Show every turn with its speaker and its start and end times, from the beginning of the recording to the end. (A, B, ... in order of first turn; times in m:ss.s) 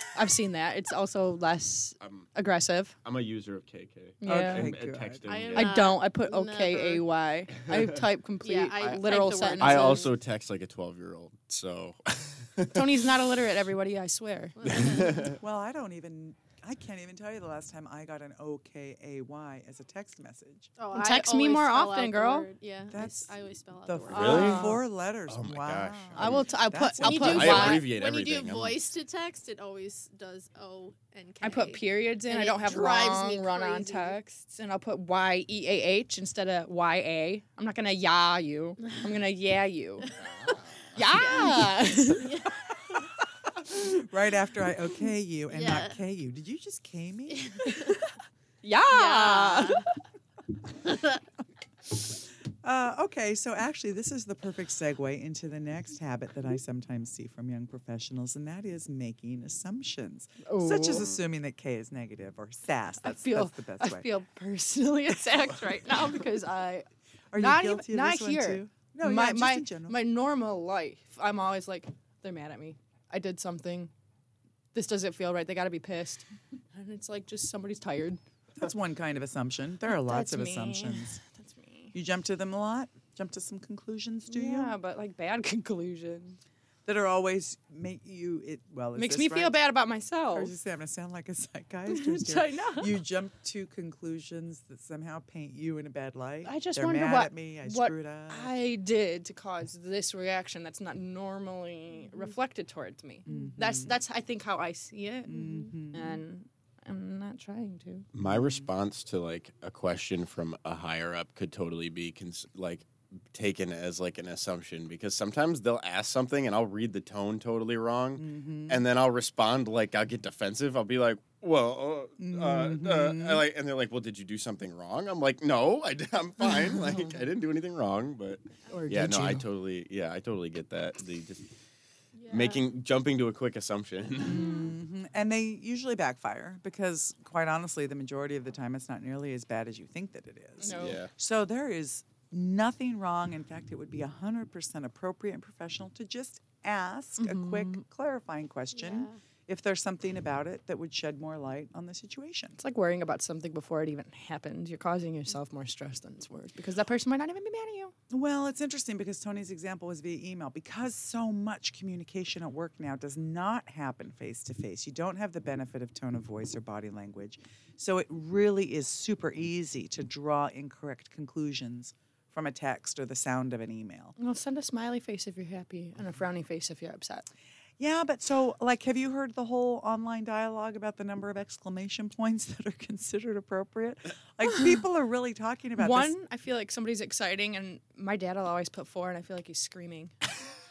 0:00.1-0:03.0 A
0:02.0-0:02.3 B
0:03.0-0:05.7 B
0:04.2-0:04.7 A
0:04.2-0:05.2 C
0:05.3-0:07.0 D
0:05.5-0:10.1 A
0:07.7-0:08.0 B
0:08.4-0:10.1 D
0:09.6-0:12.9 B
0:12.7-0:14.6 A
0:14.6-0:15.4 D
0:14.6-0:15.4 B
0:15.2-0:20.7 C
0:20.8-0:24.7 D
0:20.9-0:22.5 A
0:22.9-0:23.3 C
0:23.8-0:27.6 C
0:24.1-0:26.5 B
0:24.2-0:24.8 A
0:26.1-0:27.9 A
0:27.0-0:34.2 D
0:27.1-0:28.8 B
0:31.4-0:40.1 A
0:40.1-0:40.9 B
0:40.9-0:42.3 A
0:41.1-0:43.1 D
0:43.5-0:47.7 C
0:45.5-0:46.0 D
0:47.3-0:48.0 D
0:47.7-0:48.0 A
0:48.6-0:49.9 A
0:48.9-0:49.8 D
0:50.8-0:51.2 D
0:52.0-1:04.1 C
1:00.4-1:01.1 A
1:03.0-1:13.9 A
1:07.3-1:10.0 C
1:14.7-1:18.2 A
1:18.6-1:21.2 C
1:19.9-1:21.9 A
1:21.9-1:24.7 C
1:24.3-1:26.4 A
1:26.8-1:29.6 C
1:29.0-1:30.5 A
1:30.3-1:38.5 C
1:31.9-1:33.0 A
1:36.4-1:48.1 A
1:43.3-1:43.9 C
1:45.3-1:46.2 C
1:48.1-2:11.5 B
1:48.2-1:48.7 C
1:58.2-1:58.8 C
2:02.2-2:03.4 C
2:08.7-2:09.4 A
2:08.8-2:09.4 C
2:12.2-2:12.6 D
2:12.3-2:14.6 B
2:14.2-2:32.6 C
2:20.6-2:21.0 A
2:20.7-2:21.1 B
2:27.2-2:27.8 A
2:28.7-2:29.2 D
2:32.6-2:37.9 A
2:38.1-2:54.2 C
2:54.2-2:57.3 A
2:57.8-3:06.1 C
3:05.8-3:10.1 A